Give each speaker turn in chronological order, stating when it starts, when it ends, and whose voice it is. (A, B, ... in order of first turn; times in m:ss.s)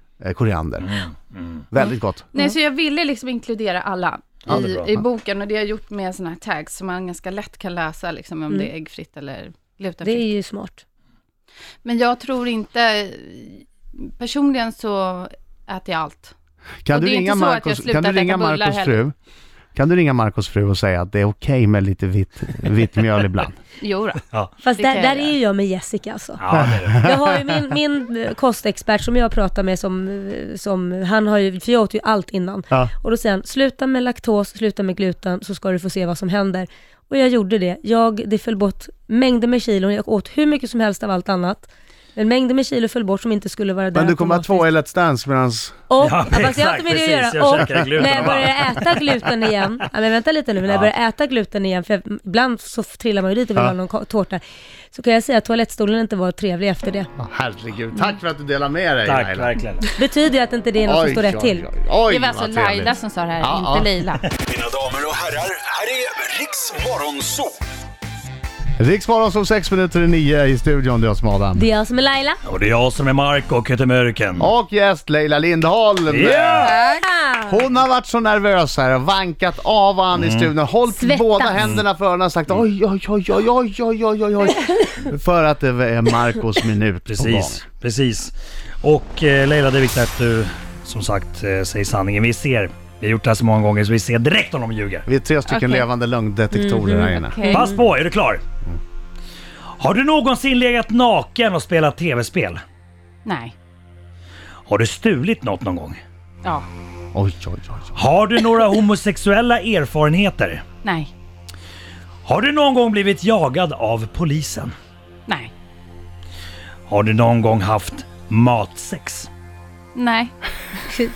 0:00.2-0:01.0 A
0:00.8-0:01.7 B
0:01.7-0:02.3 A
0:01.8-0:02.5 C
0:02.3-0:10.4 D
0:04.5-0:05.0 B
0:10.0-0:10.8 C
0:11.8-0:16.3 D
0:16.8-0:19.1 A
0:16.9-0:19.0 D
0:19.8-0:23.6 A
0:23.8-0:25.4 D
0:24.3-0:24.6 B
0:24.6-0:44.7 C
0:26.4-0:27.1 B
0:26.6-0:27.3 A
0:44.0-0:45.8 A
0:45.9-0:57.1 C
0:46.0-0:49.2 B
0:57.2-0:59.6 A
0:59.1-0:59.9 B
0:59.9-1:01.6 C
1:00.8-1:03.9 A
1:02.1-1:04.3 D
1:04.6-1:05.9 B
1:04.8-1:07.5 E
1:06.4-1:07.3 B
1:08.8-1:11.6 A
1:11.6-1:12.4 C
1:12.4-1:14.5 B
1:14.4-1:16.7 A
1:16.1-1:16.8 B
1:16.6-1:17.1 D
1:16.9-1:17.7 C
1:17.5-1:27.6 A
1:20.1-1:20.5 B
1:20.9-1:21.6 C
1:27.1-1:35.1 B
1:35.1-1:37.6 A
1:35.5-1:35.8 D
1:36.5-1:37.8 C
1:37.3-1:37.7 D
1:37.5-1:38.4 B
1:39.8-1:42.6 B
1:43.2-1:43.6 D
1:44.7-1:46.0 B
1:47.1-1:48.0 A
1:48.0-1:50.6 B
1:50.8-1:51.1 D
1:52.2-1:54.7 B
1:55.3-1:55.5 D
1:56.9-1:59.3 B
2:00.0-2:00.3 D